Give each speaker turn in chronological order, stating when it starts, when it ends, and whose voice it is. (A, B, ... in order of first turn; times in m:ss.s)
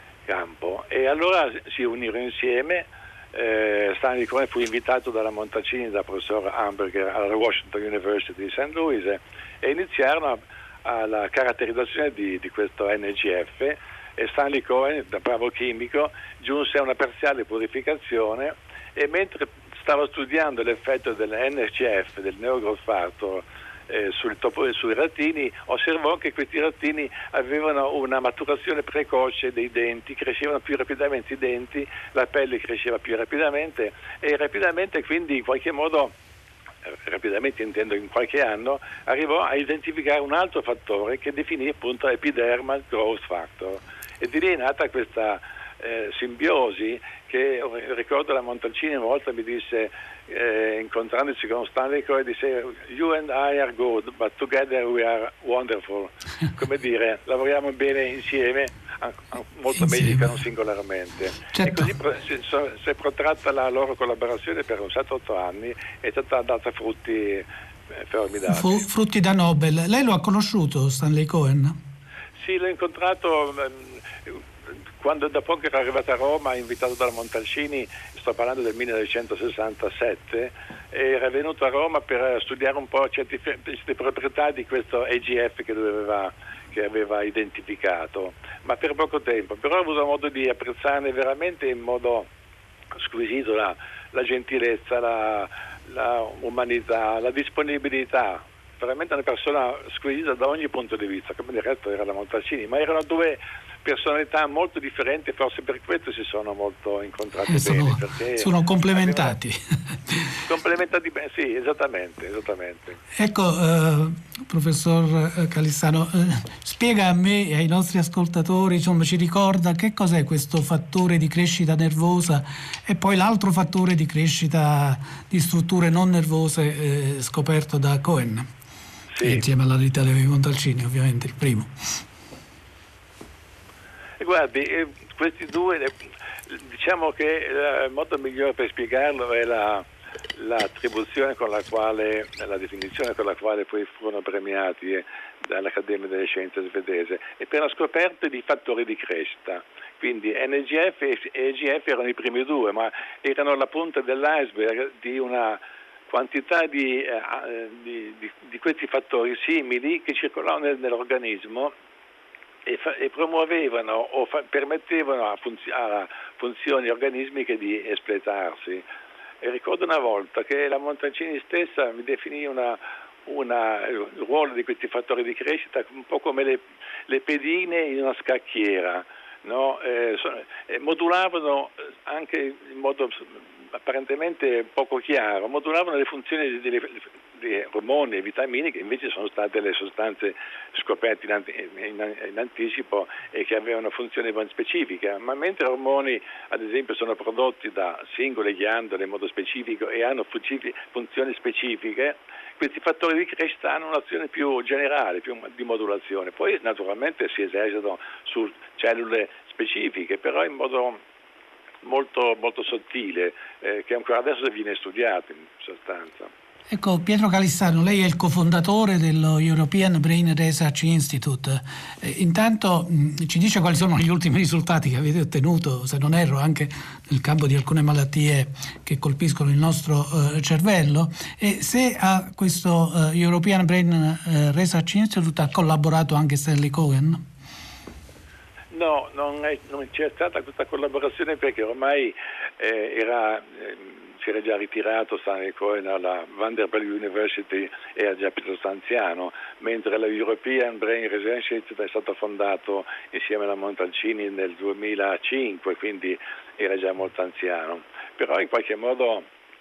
0:00.3-0:36.1 A
0:36.8-1:08.8 A
0:59.7-1:00.3 B
1:01.5-1:01.9 B
1:08.5-1:11.7 B
1:12.4-1:14.4 A
1:15.0-1:32.3 A
1:32.9-1:49.4 A
1:47.5-1:50.3 B
1:50.4-1:53.0 A
1:53.2-2:08.4 B
2:09.1-2:09.4 A
2:09.2-2:11.7 B
2:14.2-2:15.9 A
2:16.5-2:41.7 A
2:42.6-2:48.8 A
2:49.4-3:31.0 A
3:31.8-3:36.3 A
3:36.7-3:57.2 B
3:58.7-4:19.2 A